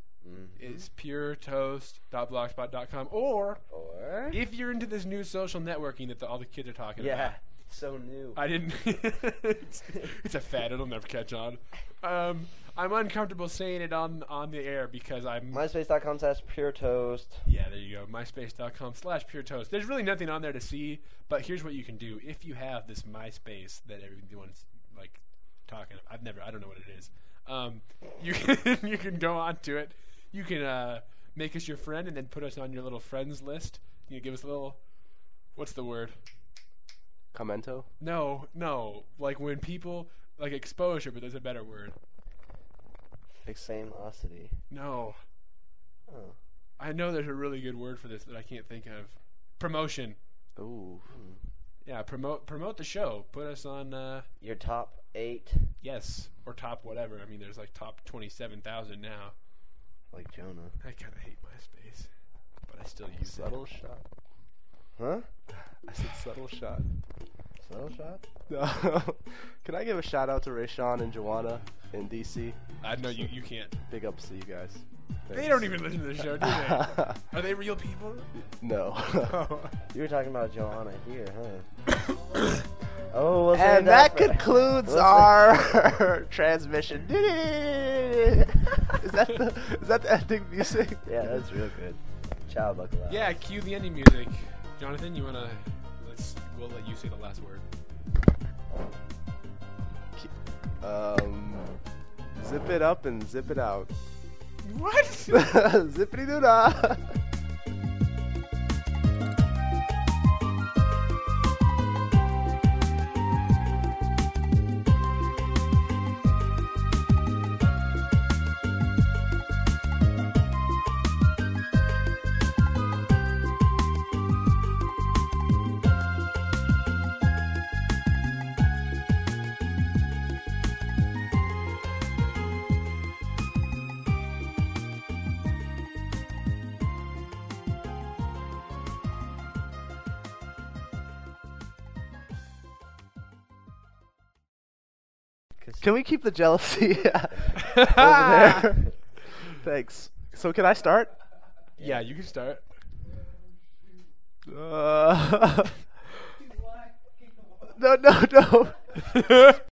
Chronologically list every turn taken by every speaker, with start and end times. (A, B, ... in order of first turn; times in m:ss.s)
0:00.2-0:00.9 A
0:00.6-0:03.6 B
0:03.7-0:04.4 A
0:04.3-0:07.4 B
0:07.0-0:08.4 A
0:08.4-0:15.6 B
0:15.5-0:17.5 A
0:17.5-0:36.2 B
0:37.3-0:37.9 C
0:38.0-0:42.0 B
0:43.4-0:44.6 A
0:44.7-0:45.2 B
0:46.1-0:46.4 A
0:46.8-0:50.2 B
0:50.6-0:51.1 C
0:51.1-0:51.4 A
0:51.8-0:54.3 B
0:54.4-0:55.7 A
0:55.8-0:59.4 B
1:00.1-1:00.8 A
1:00.8-1:02.1 B
1:02.6-1:03.6 B
1:03.2-1:04.0 C
1:05.0-1:05.3 A
1:05.6-1:06.9 C
1:07.6-1:08.2 A
1:08.5-1:15.8 C
1:12.8-1:13.8 B
1:15.3-1:18.3 B
1:16.4-1:17.2 C
1:18.4-1:19.5 C
1:19.3-1:19.7 B
1:19.9-1:21.7 A
1:22.1-1:22.6 B
1:23.1-1:25.9 A
1:23.5-1:31.5 C
1:31.0-1:33.4 A
1:33.1-1:37.6 B
1:40.2-1:41.8 C
1:42.4-1:43.9 C
1:44.6-1:45.6 B
1:45.3-1:47.2 C
2:25.8-2:31.2 C
2:27.6-2:28.7 B
2:31.8-2:32.7 B
2:34.4-2:35.9 C
2:37.7-2:39.0 C
2:39.1-2:39.6 B